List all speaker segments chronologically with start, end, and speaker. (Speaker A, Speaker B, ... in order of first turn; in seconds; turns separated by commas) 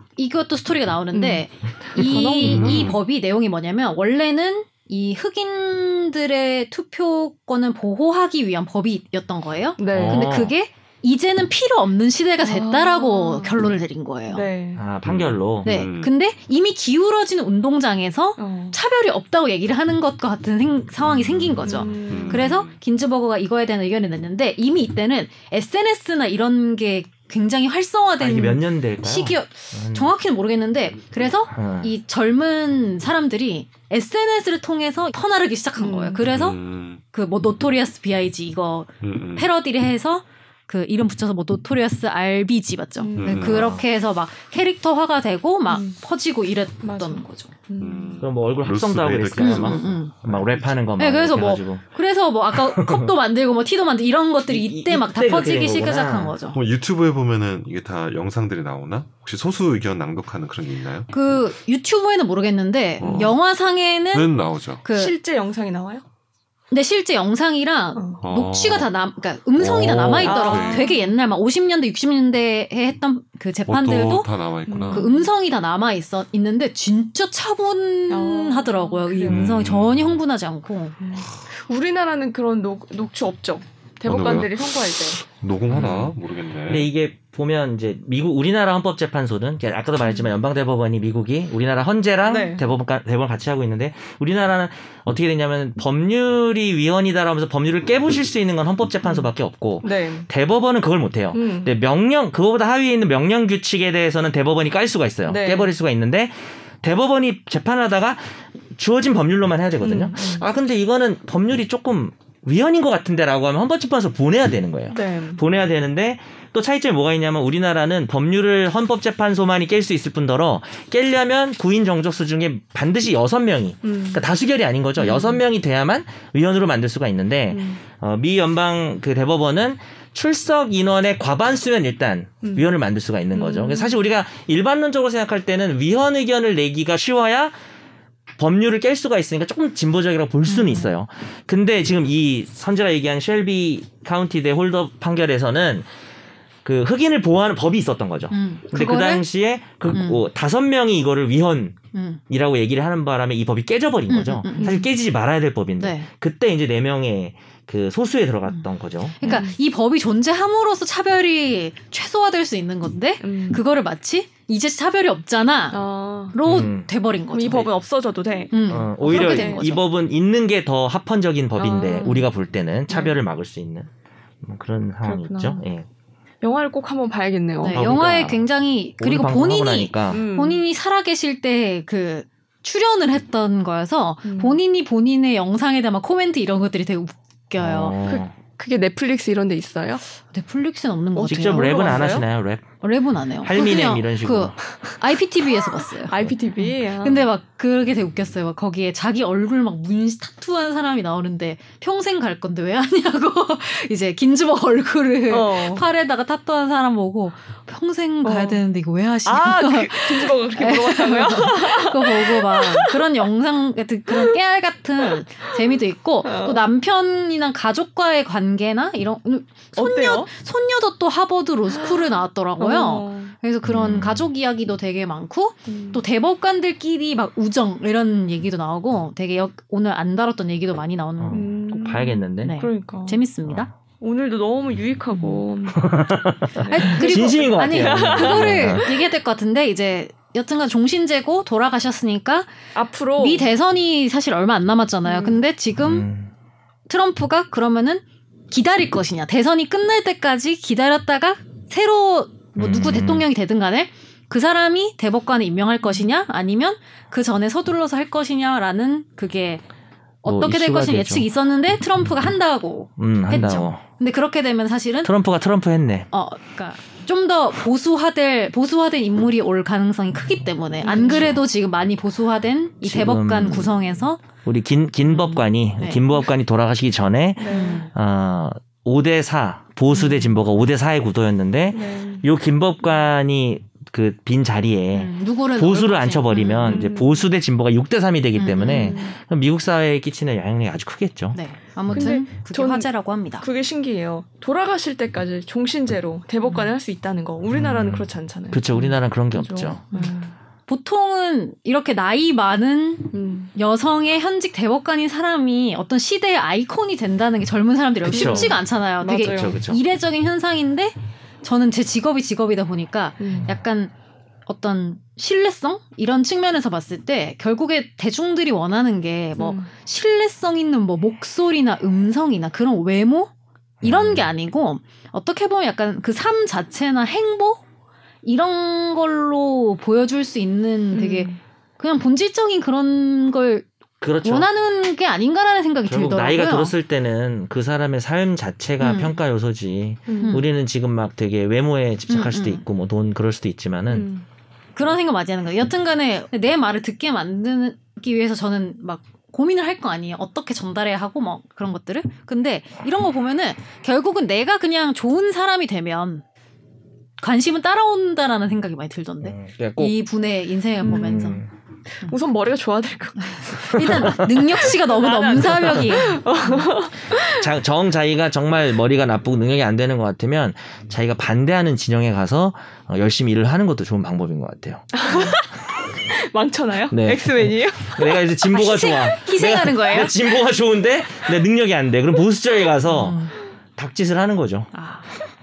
Speaker A: 0.2-14.4, Speaker B: 1.1-3.0, Speaker C: 2.4-3.0, Speaker B: 9.8-10.3, Speaker D: 9.9-10.5, Speaker B: 12.4-13.6, Speaker B: 14.3-14.8, Speaker D: 14.8-15.7, Speaker C: 15.0-16.1, Speaker A: 15.7-47.5, Speaker B: 18.4-18.8, Speaker C: 21.1-22.8, Speaker B: 21.6-22.5, Speaker D: 28.2-30.1, Speaker D: 31.5-31.9, Speaker B: 35.8-36.2, Speaker C: 36.2-37.0, Speaker C: 39.0-39.5, Speaker B: 43.0-43.5, Speaker C: 43.2-43.8, Speaker D: 43.5-43.8, Speaker B: 45.7-46.0, Speaker B: 46.8-48.2, Speaker C: 47.8-50.8, Speaker D: 48.2-51.8, Speaker A: 49.4-50.1, Speaker A: 51.0-56.6, Speaker D: 52.5-53.1, Speaker D: 54.5-56.4, Speaker C: 56.5-61.1, Speaker A: 61.1-64.3, Speaker C: 63.0-63.4, Speaker C: 64.1-64.8, Speaker A: 64.8-65.1, Speaker B: 64.9-66.0, Speaker A: 66.7-74.3, Speaker B: 68.0-68.2, Speaker C: 68.2-68.9, Speaker C: 69.6-70.9, Speaker B: 70.2-71.1, Speaker C: 73.7-75.1, Speaker B: 74.7-75.3, Speaker A: 74.9-81.0, Speaker B: 78.1-79.5, Speaker C: 79.3-80.2, Speaker B: 81.0-85.2, Speaker C: 84.1-86.9, Speaker D: 85.7-86.2, Speaker D: 86.7-137.6, Speaker B: 92.2-92.7, Speaker B: 99.8-100.3, Speaker B: 101.3-101.7, Speaker B: 105.3-105.7, Speaker B: 109.8-110.5, Speaker B: 114.9-115.4, Speaker B: 123.8-124.2, Speaker B: 125.0-125.4, Speaker B: 127.5-127.8, Speaker B: 132.4-132.7, Speaker B: 133.3-133.9, Speaker D: 138.4-145.9, Speaker A: 140.5-140.9, Speaker D: 146.7-151.8, Speaker A: 148.3-149.2, Speaker A: 149.9-150.2, Speaker A: 151.9-152.2, Speaker D: 152.3-159.3, Speaker A: 154.1-154.8, Speaker B: 154.6-154.8, Speaker A: 155.8-156.1, Speaker A: 159.2-165.8, Speaker B: 159.2-159.6, Speaker B: 163.2-163.6, Speaker B: 165.7-166.4, Speaker A: 166.3-167.7, Speaker D: 166.4-166.9, Speaker B: 167.3-169.7, Speaker A: 168.5-169.8, Speaker D: 168.7-173.9, Speaker B: 171.6-172.3, Speaker B: 172.9-173.2, Speaker D: 174.4-175.9, Speaker B: 175.0-175.7, Speaker B: 176.4-177.8, Speaker A: 177.6-188.0, Speaker D: 177.7-178.5, Speaker D: 179.0-180.2, Speaker B: 180.1-180.6, Speaker B: 184.2-184.6, Speaker D: 187.6-188.3, Speaker B: 188.1-190.1, Speaker A: 190.3-192.0, Speaker B: 191.2-192.3, Speaker D: 191.3-192.7, Speaker A: 192.8-231.6, Speaker D: 193.4-194.6, Speaker B: 195.4-197.3, Speaker B: 205.3-205.8, Speaker B: 208.2-208.6, Speaker B: 209.2-213.0, Speaker B: 214.1-214.3, Speaker B: 216.2-216.6, Speaker B: 219.8-220.3, Speaker B: 221.7-223.3, Speaker D: 223.6-224.3, Speaker B: 225.7-226.0, Speaker D: 231.2-232.6, Speaker B: 231.3-233.2, Speaker A: 232.4-233.7, Speaker B: 234.0-235.9, Speaker D: 235.7-238.8, Speaker B: 236.6-239.0, Speaker A: 236.7-242.5, Speaker B: 242.7-243.5, Speaker A: 243.2-246.1, Speaker B: 245.1-245.4, Speaker D: 245.8-246.3, Speaker A: 246.9-259.6, Speaker D: 252.6-253.3, Speaker A: 260.2-265.1, Speaker D: 260.2-261.3, Speaker D: 263.0-263.8, Speaker D: 265.0-266.1, Speaker A: 266.1-274.2, Speaker B: 270.8-271.3, Speaker D: 271.0-271.4, Speaker D: 272.8-273.8, Speaker D: 274.4-291.4, Speaker A: 275.1-276.2, Speaker B: 277.4-277.9, Speaker A: 277.5-277.9, Speaker A: 279.9-280.4, Speaker B: 281.7-282.2, Speaker A: 284.9-286.9, Speaker B: 286.6-287.2, Speaker A: 288.4-289.0, Speaker B: 288.7-289.1, Speaker A: 291.3-293.5, Speaker B: 291.9-300.3, Speaker D: 297.6-299.8, Speaker A: 300.7-313.9, Speaker B: 303.1-303.5, Speaker D: 308.0-308.6, Speaker B: 308.1-309.6, Speaker D: 309.2-309.8, Speaker B: 313.2-313.5, Speaker A: 314.5-323.3, Speaker B: 319.4-319.7, Speaker D: 323.8-324.3, Speaker A: 323.8-327.6, Speaker A: 328.2-333.7, Speaker B: 330.9-331.4, Speaker D: 334.0-334.5, Speaker A: 334.2-336.7, Speaker D: 335.9-344.1, Speaker A: 338.8-339.2, Speaker B: 340.1-340.4, Speaker A: 340.2-340.5, Speaker A: 342.1-342.6, Speaker B: 343.9-344.2, Speaker A: 344.8-356.2, Speaker A: 357.2-361.4, Speaker D: 359.2-359.9, Speaker B: 360.9-361.4, Speaker D: 360.9-361.5, Speaker B: 362.0-367.5, Speaker A: 363.2-366.2, Speaker D: 363.7-364.3, Speaker D: 367.1-375.4, Speaker B: 374.9-375.5, Speaker B: 376.1-378.2, Speaker D: 376.9-384.7, Speaker A: 378.5-380.2, Speaker A: 382.9-383.4, Speaker A: 384.7-385.1